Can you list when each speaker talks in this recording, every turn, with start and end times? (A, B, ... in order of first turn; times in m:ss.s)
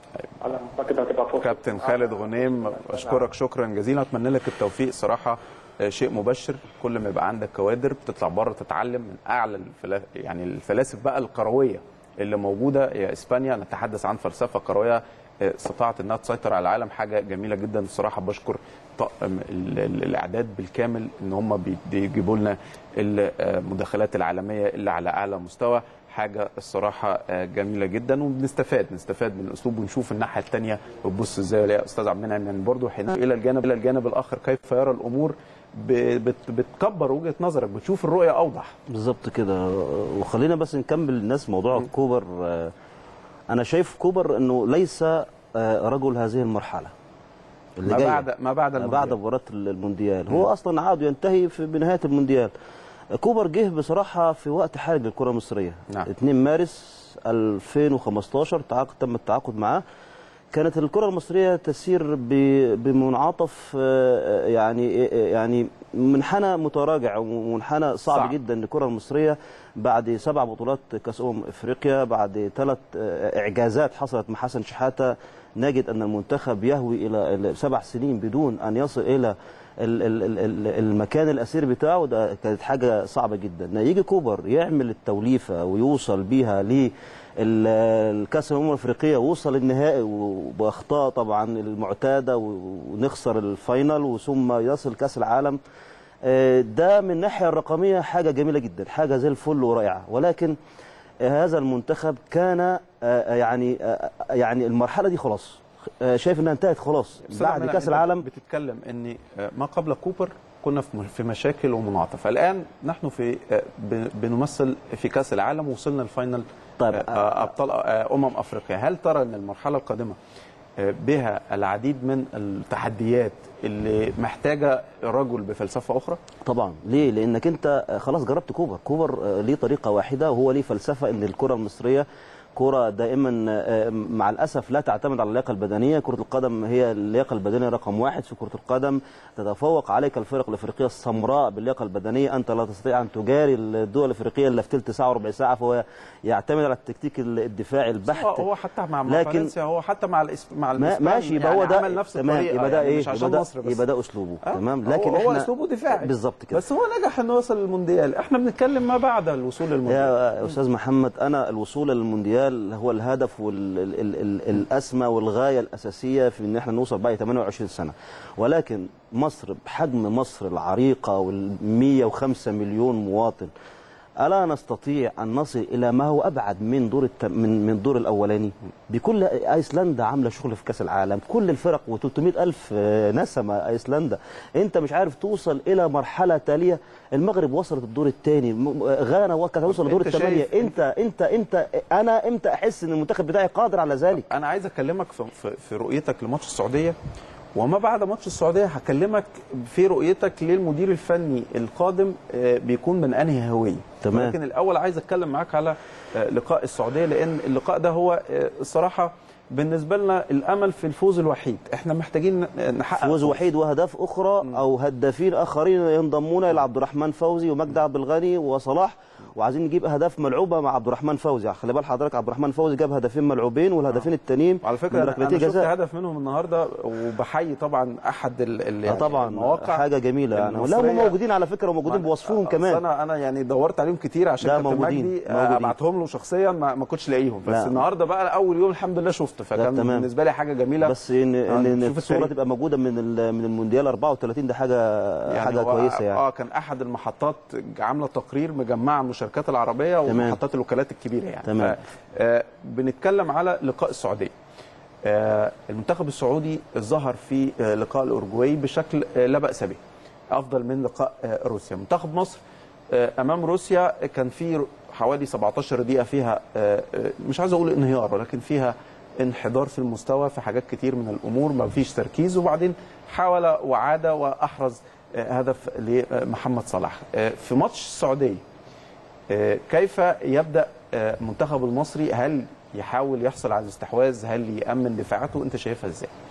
0:00.4-0:03.2 A
0:01.4-0:38.7 B
0:38.9-0:42.7 C
0:43.5-0:46.9 C
0:47.8-0:48.2 C
0:47.8-0:49.2 B
0:48.8-0:52.5 C
0:53.2-0:59.8 C
1:00.5-1:35.6 C
1:08.1-1:08.4 B
1:36.2-1:40.6 C
1:41.2-1:48.2 C
1:47.3-2:00.2 B
1:56.8-1:57.5 C
2:00.8-2:06.2 B
2:06.4-2:28.4 C
2:28.1-2:33.8 B
2:29.0-2:29.5 C
2:30.8-2:36.6 C
2:34.4-2:40.1 B
2:39.8-2:53.5 C
2:54.2-3:14.2 C
3:09.6-3:10.8 B
3:14.1-3:17.0 B
3:17.5-3:33.4 B
3:24.0-3:24.4 C
3:33.0-3:45.7 C
3:44.6-3:51.2 B
3:48.8-3:52.8 C
3:51.8-4:01.0 B
3:54.4-3:55.7 C
3:57.5-3:57.8 C
3:59.5-4:00.1 C
4:00.8-4:06.2 C
4:01.5-4:02.3 B
4:05.3-4:14.3 B
4:10.0-4:10.4 C
4:11.4-4:11.8 C
4:15.0-4:19.8 B
4:20.3-4:22.4 B
4:22.9-4:38.4 B
4:39.3-4:46.1 B